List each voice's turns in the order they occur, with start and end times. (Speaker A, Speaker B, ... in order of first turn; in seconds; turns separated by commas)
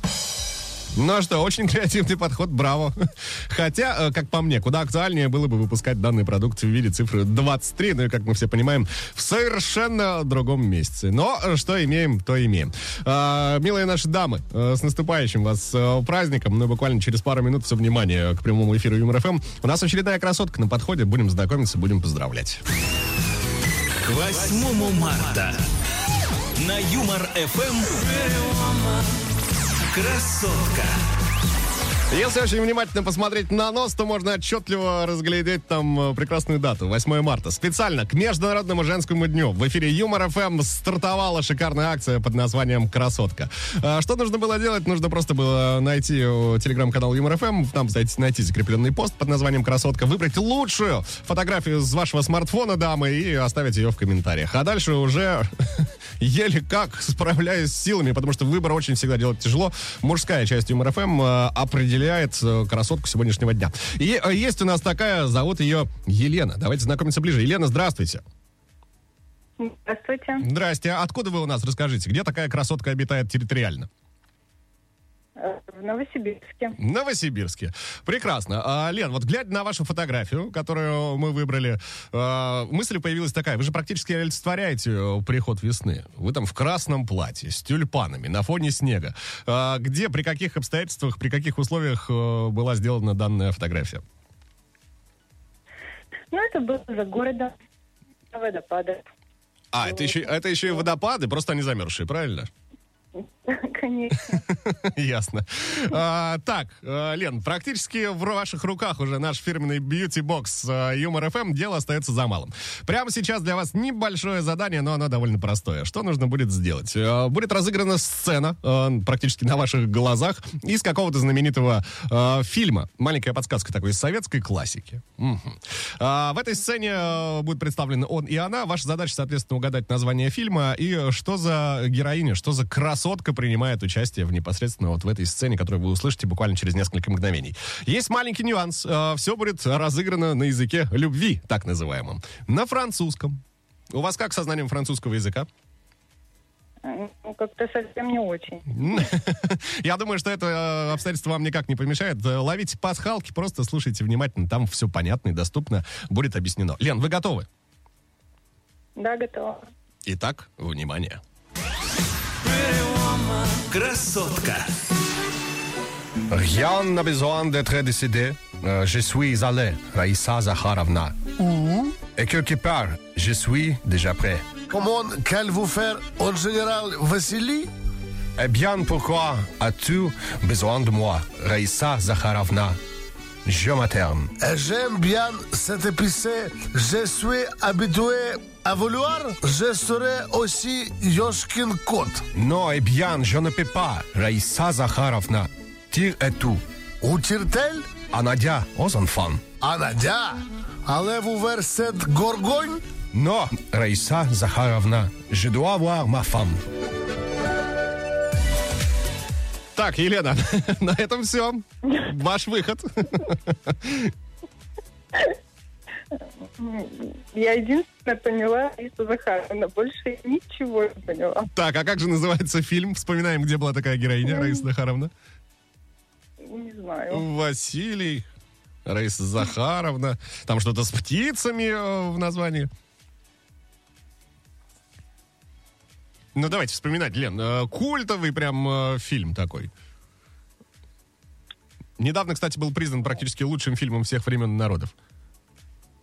Speaker A: 0.9-22.6, Speaker B: 24.0-25.6, Speaker B: 26.6-28.9, Speaker B: 29.9-30.9, Speaker A: 32.1-68.2, Speaker C: 69.6-70.5, Speaker A: 70.4-73.9, Speaker C: 75.4-76.8, Speaker A: 76.8-94.0, Speaker C: 96.3-97.5, Speaker C: 98.3-99.0, Speaker A: 99.7-102.5, Speaker C: 99.9-100.2, Speaker C: 103.2-104.5, Speaker A: 104.3-145.5, Speaker C: 146.8-149.0, Speaker A: 148.7-157.5, Speaker C: 158.9-159.6, Speaker A: 160.0-161.2, Speaker B: 162.5-164.7, Speaker D: 166.3-174.5, Speaker E: 174.7-177.7, Speaker D: 178.4-182.8, Speaker D: 183.4-184.3, Speaker E: 184.4-192.2, Speaker D: 192.3-196.6, Speaker E: 197.0-197.9, Speaker D: 198.1-199.4, Speaker E: 199.6-202.8, Speaker D: 203.1-206.6, Speaker A: 209.7-214.1, Speaker C: 216.4-221.5, Speaker A: 221.5-225.1, Speaker C: 224.2-224.6, Speaker C: 226.4-227.2, Speaker A: 227.1-228.3, Speaker A: 228.8-232.7, Speaker A: 236.3-239.7, Speaker A: 242.0-244.9